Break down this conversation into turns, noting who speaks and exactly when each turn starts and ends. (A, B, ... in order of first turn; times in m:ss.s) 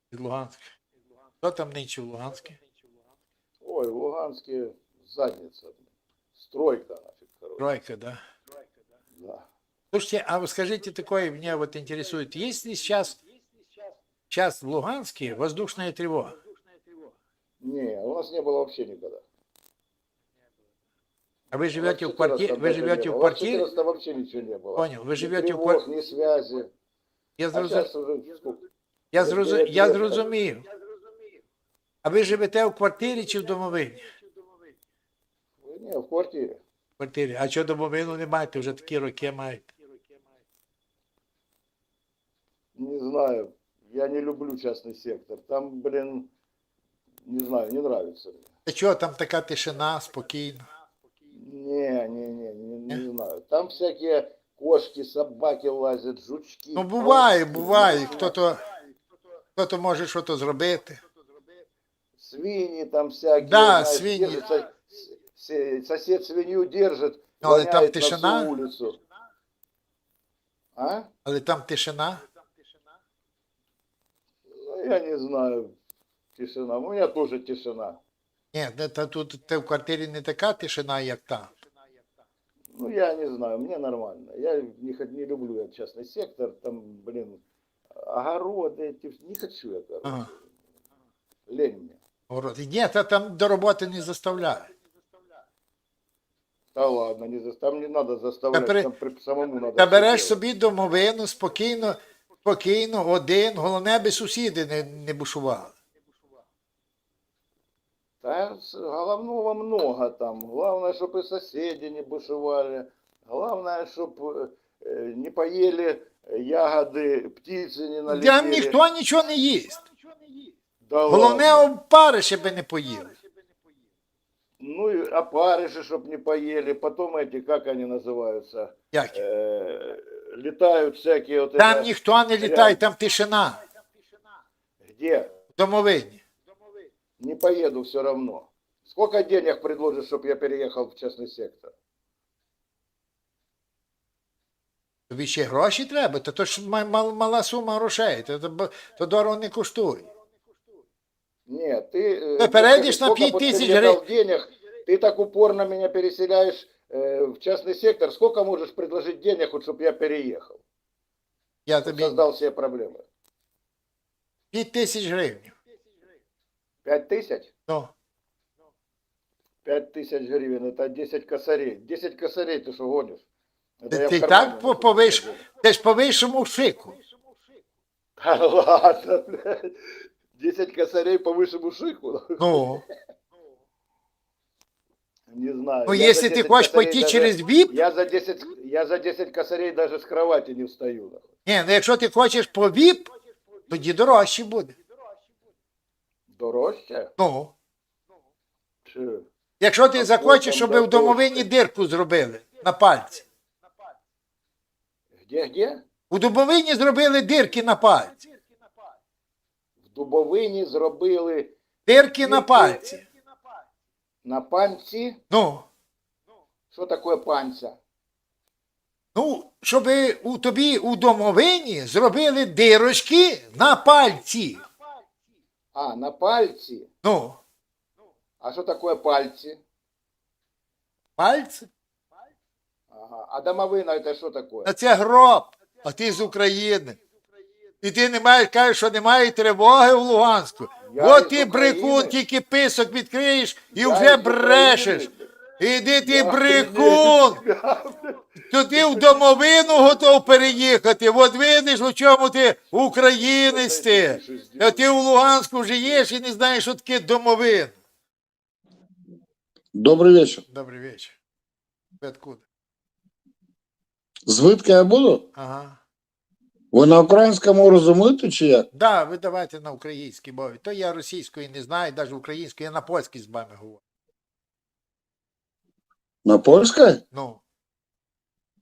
0:00.1-0:00.6 A
0:01.4-0:02.6 A
0:03.6-0:07.6 B
0:07.6-0:08.2 A
0:09.2-0:09.5 B
0:09.9-0:13.2 A
0:14.3-0:16.4 A
0:17.6-0:19.2 B
0:21.5-0:23.6 A
0:21.7-0:26.7 B
0:24.8-0:25.8 A
0:27.4-0:27.9 A
0:27.5-0:28.6 B
0:29.1-0:30.6 A
0:29.2-0:30.2 B
0:32.0-0:34.0 A
0:35.6-0:36.6 B
0:37.0-0:39.7 A
0:42.8-0:46.3 B
0:47.2-0:48.5 B
0:48.7-0:50.7 A
0:51.3-0:58.3 B
0:56.8-0:58.6 A
0:59.6-1:01.0 A
1:02.2-1:09.0 B
1:03.4-1:04.5 A
1:07.4-1:08.5 A
1:10.8-1:11.1 B
1:11.2-1:12.2 A
1:14.6-1:15.7 B
1:16.4-1:18.0 B
1:18.5-1:21.5 A
1:22.7-1:27.4 B
1:28.0-1:30.4 B
1:30.0-1:30.3 A
1:31.5-1:32.0 B
1:32.3-1:34.7 A
1:36.7-1:40.4 B
1:38.5-1:38.9 A
1:39.8-1:45.7 A
1:48.2-1:58.8 B
1:58.1-1:59.9 A
2:00.8-2:01.7 B
2:01.1-2:03.2 A
2:04.6-2:12.8 B
2:08.9-2:09.2 A
2:11.6-2:13.6 A
2:14.9-2:15.3 B
2:15.6-2:16.2 A
2:17.2-2:21.7 B
2:25.1-2:30.1 A
2:31.5-2:40.6 B
2:32.4-2:34.0 A
2:41.7-2:42.2 A
2:41.8-2:43.0 B
2:44.5-2:45.5 A
2:46.8-2:47.5 B
2:47.7-2:47.9 A
2:49.6-2:53.2 B
2:53.8-2:55.4 B
2:53.9-2:57.0 A
2:58.2-2:59.8 B
3:00.4-3:02.4 B
3:02.4-3:02.8 A
3:05.3-3:11.3 B
3:05.9-3:07.7 A
3:11.4-3:13.1 A
3:13.7-3:14.7 A
3:16.3-3:17.1 B
3:17.2-3:17.5 A
3:18.9-3:19.3 B
3:19.6-3:23.2 A
3:20.0-3:21.5 B
3:25.2-3:25.8 B
3:26.1-3:28.2 A
3:29.8-3:31.5 B
3:31.9-3:33.0 A
3:32.2-3:32.7 B
3:34.2-3:35.2 B
3:35.3-3:35.7 A
3:36.7-3:37.8 B
3:39.2-3:44.6 A
3:45.8-3:46.9 B
3:47.0-3:47.4 A
3:48.4-3:49.6 B
3:51.2-3:51.7 A
3:52.9-3:54.7 B
3:54.7-3:57.0 A
3:57.8-4:05.1 A
4:00.9-4:02.2 B
4:03.7-4:05.3 B
4:05.6-4:07.4 A
4:06.0-4:08.2 B
4:08.5-4:17.8 A
4:08.8-4:09.2 B
4:13.2-4:14.9 B
4:19.8-4:20.4 C
4:20.5-4:21.2 A
4:22.0-4:22.4 A
4:24.3-4:25.2 C
4:25.4-4:25.8 A
4:26.7-4:28.7 C
4:28.7-4:33.8 A
4:36.2-4:37.0 C
4:37.1-4:37.4 A